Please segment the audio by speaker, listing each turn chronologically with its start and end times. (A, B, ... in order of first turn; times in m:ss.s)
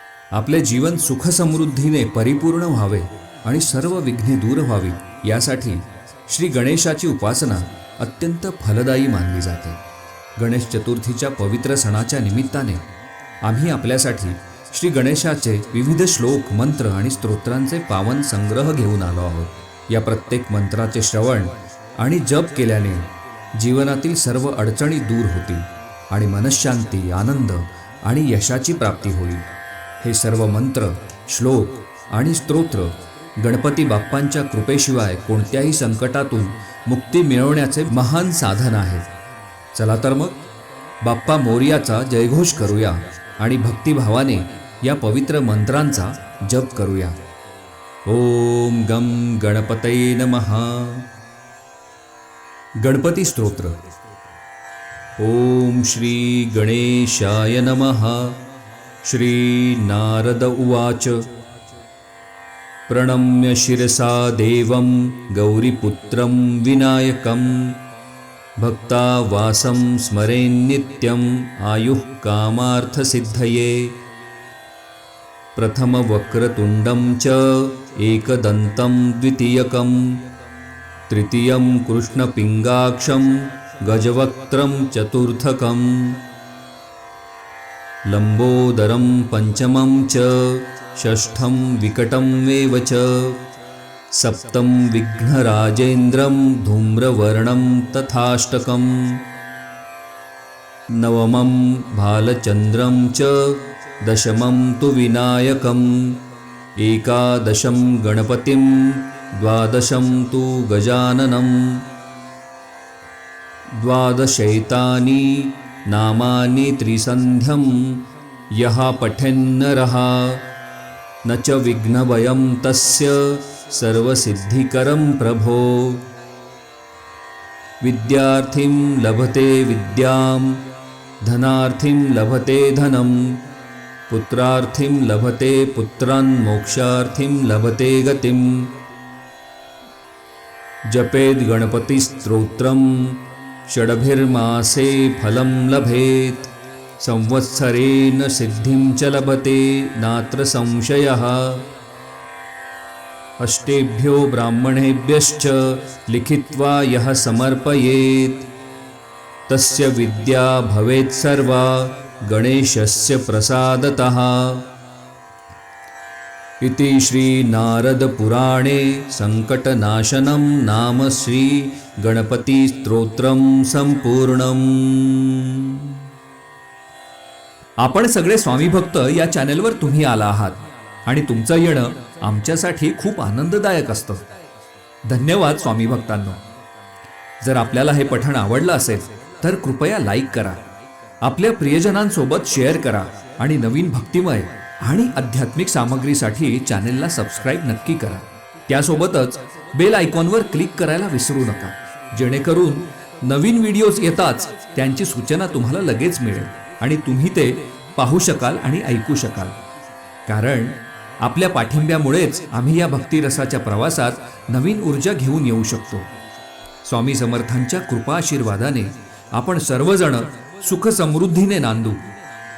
0:00.3-0:09.8 A
0:10.4-0:12.8 A
0:13.4-0:39.1 A
0:39.7-0:40.4 A
0:41.0-0:47.2 A
0:48.0-0:51.0 A
0:52.8-0:53.8 A
0:55.2-0:58.4 A
0:59.0-1:01.3 A
1:02.9-1:07.8 A
1:08.6-1:14.0 A
1:15.6-1:20.2 A
1:21.1-1:26.2 A
1:28.1-1:33.4 A
1:34.1-1:39.2 A
1:41.0-1:46.2 A
1:46.8-1:51.8 A
1:53.8-2:00.4 A
2:01.2-2:06.0 A
2:07.8-2:10.6 A
2:11.2-2:13.4 A
2:14.1-2:18.7 A
2:20.9-2:31.6 A
2:33.4-2:38.5 A
2:39.5-2:44.7 A
2:46.6-2:56.0 A
2:57.8-3:04.2 A
3:05.0-3:06.4 A
3:07.4-3:10.7 A
3:11.2-3:29.6 A
3:30.3-3:36.1 A
3:36.8-3:42.0 A